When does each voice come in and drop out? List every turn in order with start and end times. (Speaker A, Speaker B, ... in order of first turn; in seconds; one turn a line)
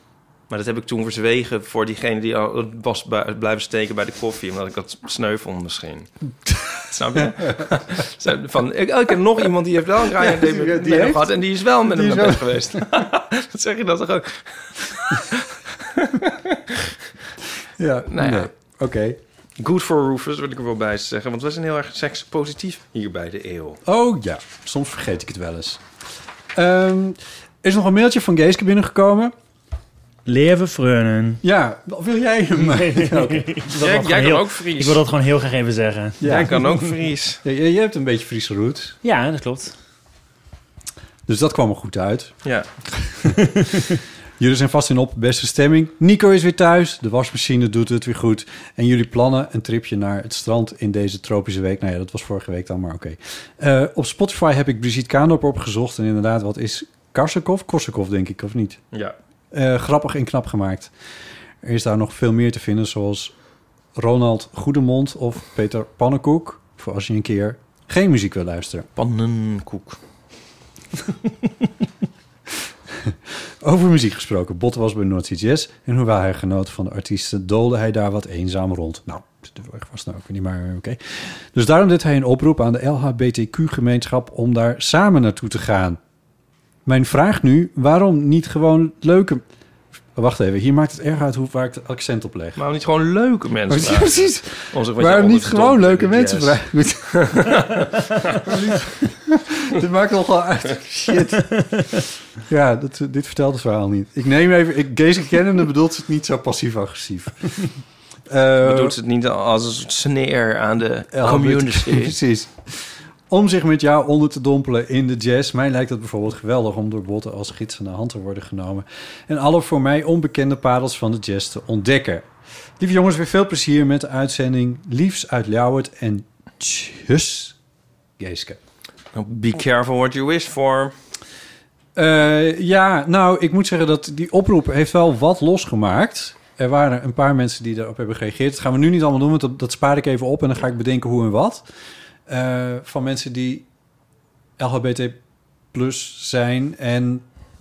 Speaker A: 0.5-6.1
Speaker A: 6.8-16.9
Speaker B: 7.2-7.6
Speaker B: 10.2-12.8
Speaker B: 17.8-19.2
Speaker A: 18.1-18.5
Speaker A: 19.6-23.8
Speaker B: 23.8-25.8
Speaker B: 26.5-29.3
Speaker C: 30.2-31.4
Speaker B: 31.4-34.1
Speaker C: 32.6-36.7
Speaker A: 33.8-35.0
Speaker B: 36.2-36.6
Speaker A: 36.2-37.4
Speaker B: 37.4-39.0
Speaker C: 39.0-39.7
Speaker B: 41.2-43.8
Speaker B: 44.4-58.8
Speaker B: 59.5-60.9
Speaker B: 61.6-63.3
Speaker B: 63.9-68.8
Speaker A: 69.0-70.0
Speaker B: 72.9-86.0
Speaker B: 86.8-89.4
Speaker B: 90.1-92.6
Speaker A: 92.6-96.6
Speaker B: 93.7-97.6
Speaker A: 97.1-98.4
Speaker B: 98.4-108.9
Speaker A: 108.6-112.1
Speaker B: 111.1-122.3
Speaker B: 122.8-127.6
Speaker B: 128.2-128.6
Speaker A: 129.1-130.9
Speaker B: 131.9-141.6
Speaker B: 142.3-143.7
Speaker B: 144.6-145.2
Speaker B: 145.7-147.2